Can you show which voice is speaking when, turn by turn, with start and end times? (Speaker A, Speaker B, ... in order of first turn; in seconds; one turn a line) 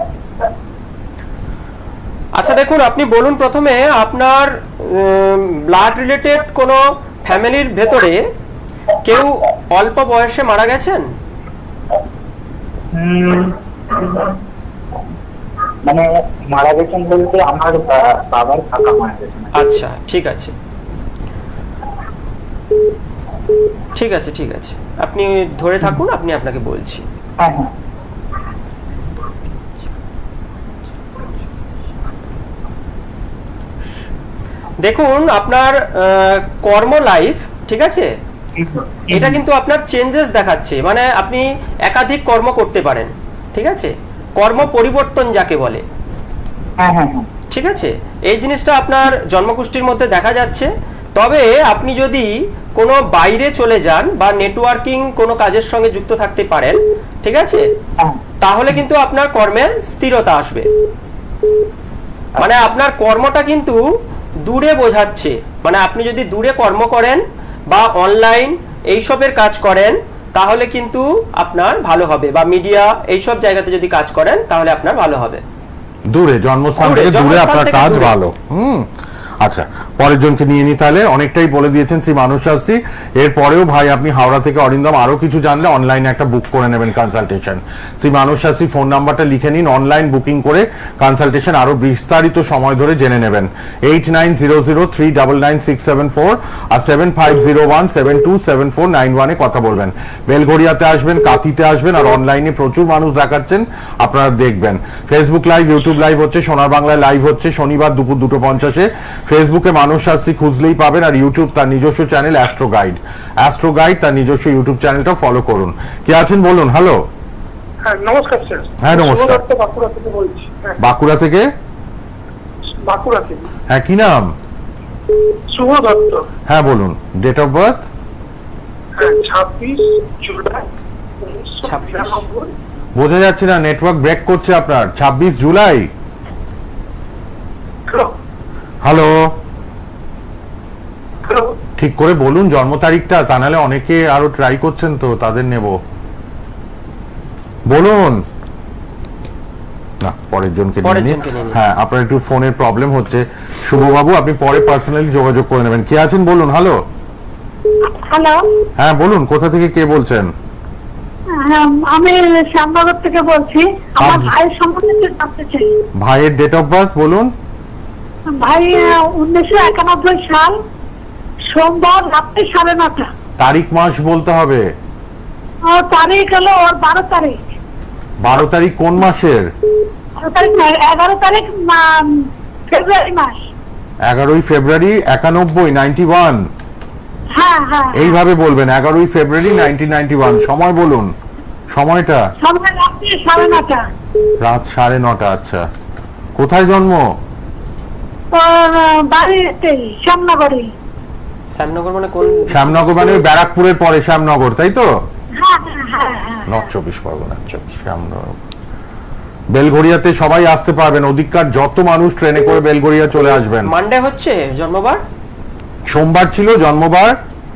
Speaker A: 2.3-8.2
Speaker A: 9.0-11.1
Speaker B: 12.9-14.3
Speaker B: 15.8-19.5
Speaker A: 19.5-20.5
Speaker A: 23.9-27.0
Speaker B: 27.4-27.7
Speaker A: 34.8-38.1
Speaker B: 38.6-39.4
Speaker A: 39.1-45.8
Speaker B: 46.8-47.3
Speaker A: 47.5-57.6
Speaker A: 58.4-60.7
Speaker A: 62.4-63.8
Speaker A: 64.4-75.4
Speaker C: 76.1-78.9
Speaker A: 76.8-78.1
Speaker C: 79.4-117.0
Speaker D: 117.8-120.8
Speaker C: 118.8-119.4
Speaker C: 120.8-121.5
Speaker D: 122.8-123.5
Speaker C: 123.7-124.3
Speaker D: 125.5-126.2
Speaker C: 126.5-127.8
Speaker D: 129.0-130.7
Speaker D: 131.2-132.5
Speaker A: 131.6-132.2
Speaker C: 132.9-135.9
Speaker C: 138.8-139.1
Speaker D: 141.2-141.6
Speaker C: 141.8-145.8
Speaker C: 147.7-148.2
Speaker C: 150.0-156.8
Speaker A: 150.8-151.6
Speaker E: 157.9-158.4
Speaker C: 158.8-160.3
Speaker E: 161.3-165.7
Speaker C: 164.0-164.3
Speaker C: 166.0-167.3
Speaker E: 168.3-170.6
Speaker E: 171.5-173.1
Speaker C: 173.4-174.6
Speaker E: 175.7-177.4
Speaker C: 178.2-179.5
Speaker E: 180.2-183.4
Speaker C: 184.1-186.4
Speaker E: 187.3-188.2
Speaker C: 187.9-191.1
Speaker C: 191.7-192.2
Speaker E: 192.4-193.8
Speaker C: 194.4-195.6
Speaker C: 196.4-197.0
Speaker E: 198.3-200.7
Speaker A: 201.5-203.0
Speaker C: 202.5-204.9
Speaker E: 205.4-206.7
Speaker C: 206.5-208.4
Speaker C: 209.5-213.7
Speaker A: 213.7-215.0
Speaker C: 215.9-217.2